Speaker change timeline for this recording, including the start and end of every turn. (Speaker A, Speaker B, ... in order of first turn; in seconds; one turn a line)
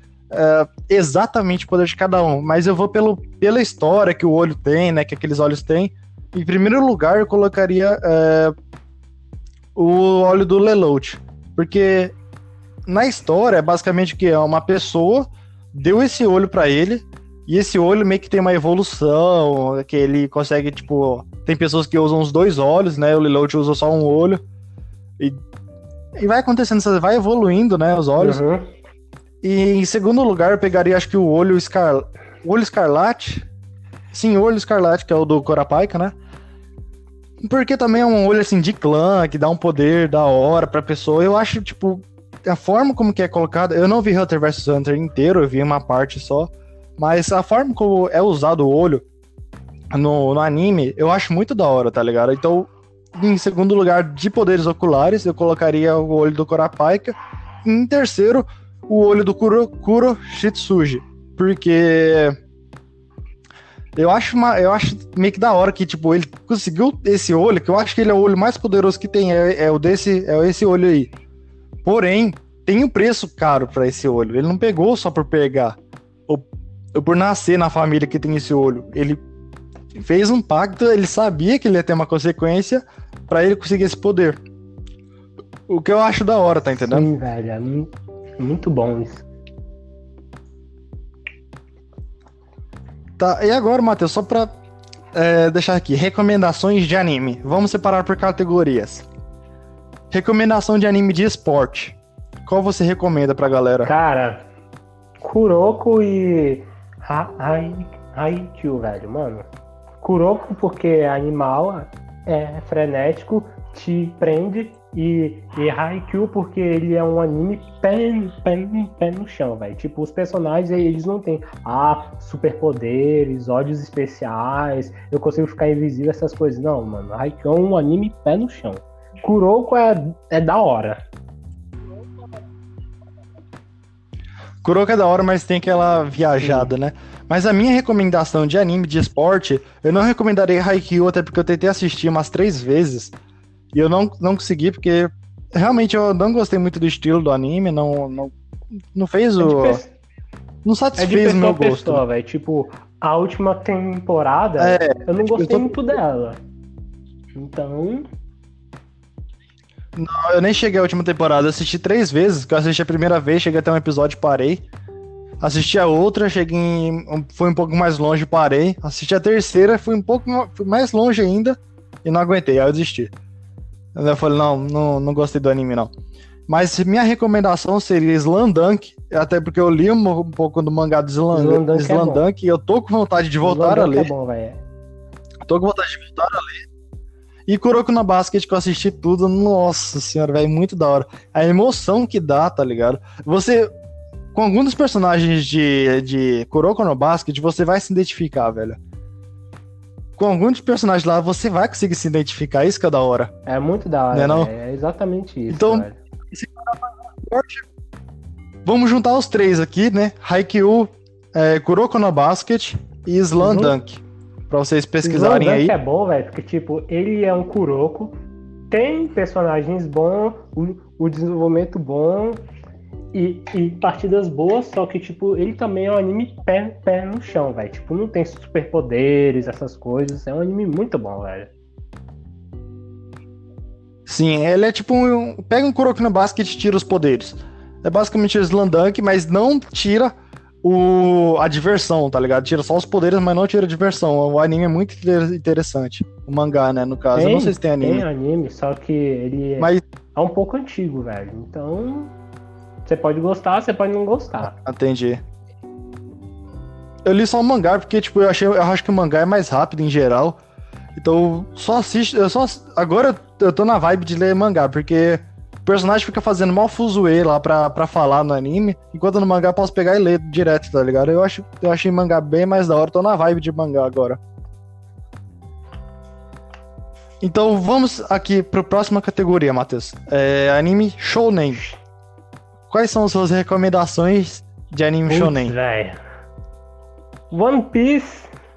Speaker A: 0.3-8.5
Speaker A: 9.7-12.1
Speaker A: 12.9-24.4
Speaker A: 26.1-28.4
Speaker B: 28.2-28.7
Speaker A: 29.4-33.4
Speaker A: 34.1-36.1
Speaker A: 37.4-49.0
Speaker A: 49.9-62.4
Speaker A: 63.9-71.1
Speaker A: 71.8-79.2
Speaker A: 79.9-84.4
Speaker A: 85.7-87.1
Speaker B: 86.8-89.3
Speaker A: 93.2-94.5
Speaker A: 95.1-99.0
Speaker A: 100.1-103.9
Speaker B: 103.8-104.5
Speaker B: 105.2-109.4
Speaker B: 110.0-131.0
Speaker A: 134.6-143.1
Speaker B: 136.4-136.7
Speaker A: 143.7-148.3
Speaker A: 148.9-149.8
Speaker B: 149.4-149.9
Speaker A: 150.6-152.0
Speaker B: 151.0-156.4
Speaker A: 154.6-155.9
Speaker B: 157.3-158.1
Speaker A: 159.9-164.6
Speaker A: 165.4-173.1
Speaker A: 173.9-175.9
Speaker A: 176.5-184.1
Speaker B: 181.3-182.2
Speaker B: 183.4-184.6
Speaker A: 185.4-186.6
Speaker A: 187.5-193.7
Speaker A: 194.3-198.8
Speaker A: 200.2-203.3
Speaker B: 203.4-206.0
Speaker A: 204.1-204.5
Speaker A: 205.5-207.6
Speaker A: 208.6-215.7
Speaker B: 213.4-213.8
Speaker B: 215.0-218.1
Speaker B: 218.7-222.4
Speaker B: 223.1-231.5
Speaker A: 234.1-248.0
Speaker B: 247.1-252.1
Speaker B: 252.8-254.5
Speaker A: 254.5-255.2
Speaker A: 257.0-260.4
Speaker A: 260.9-274.2
Speaker A: 277.2-281.6
Speaker A: 282.7-285.5
Speaker B: 285.1-286.0
Speaker B: 287.3-288.3